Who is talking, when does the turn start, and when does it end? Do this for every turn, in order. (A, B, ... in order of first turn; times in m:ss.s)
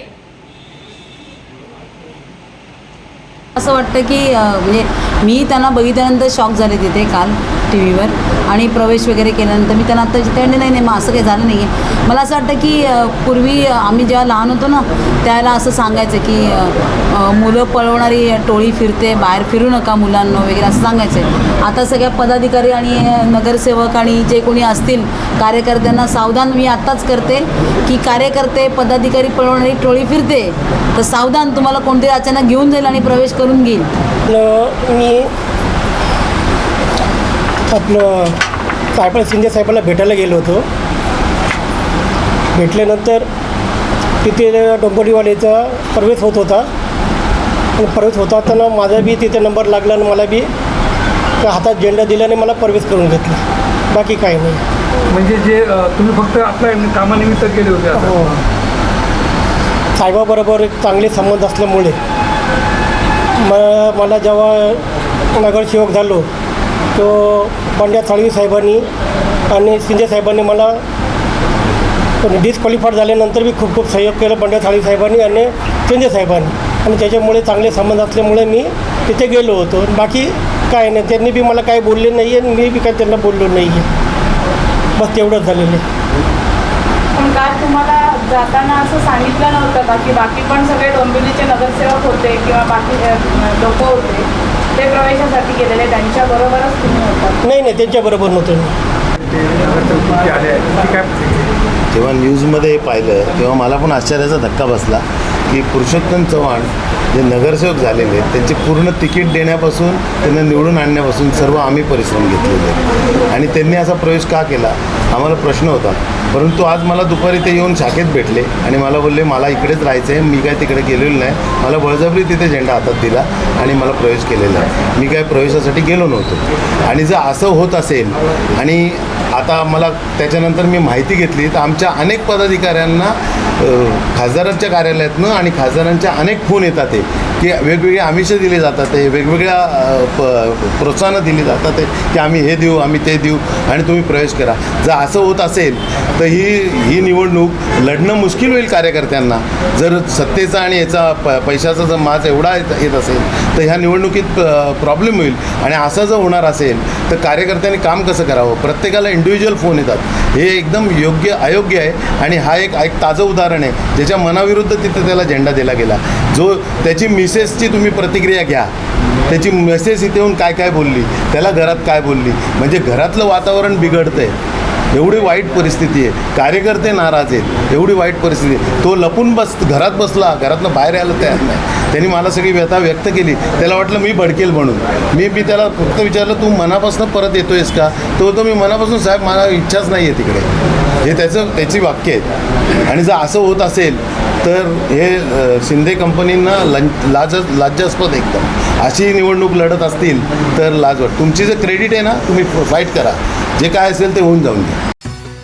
0:03.6-0:33.9 A
0:34.3-0:35.3 B
0:37.7-0:38.4 B
0:38.9-0:40.6 B
0:42.5-0:43.2 B
0:44.2-0:46.7 B
0:47.8-0:50.5 B
0:51.4-0:54.6 B
0:55.1-0:58.3 C
0:58.0-0:58.4 B
1:00.0-1:02.0 B
1:03.4-1:04.8 B
1:05.4-1:06.3 B
1:06.9-1:08.8 B
1:09.5-1:10.8 B
1:12.2-1:23.9 B
1:25.0-1:25.8 B
1:27.1-1:37.4 D
1:37.4-1:38.7 B
1:39.3-1:41.5 C
1:41.9-2:48.7 E
2:49.3-2:54.3 E
2:54.9-3:10.5 E
3:11.0-3:12.3 E
3:12.8-3:24.8 E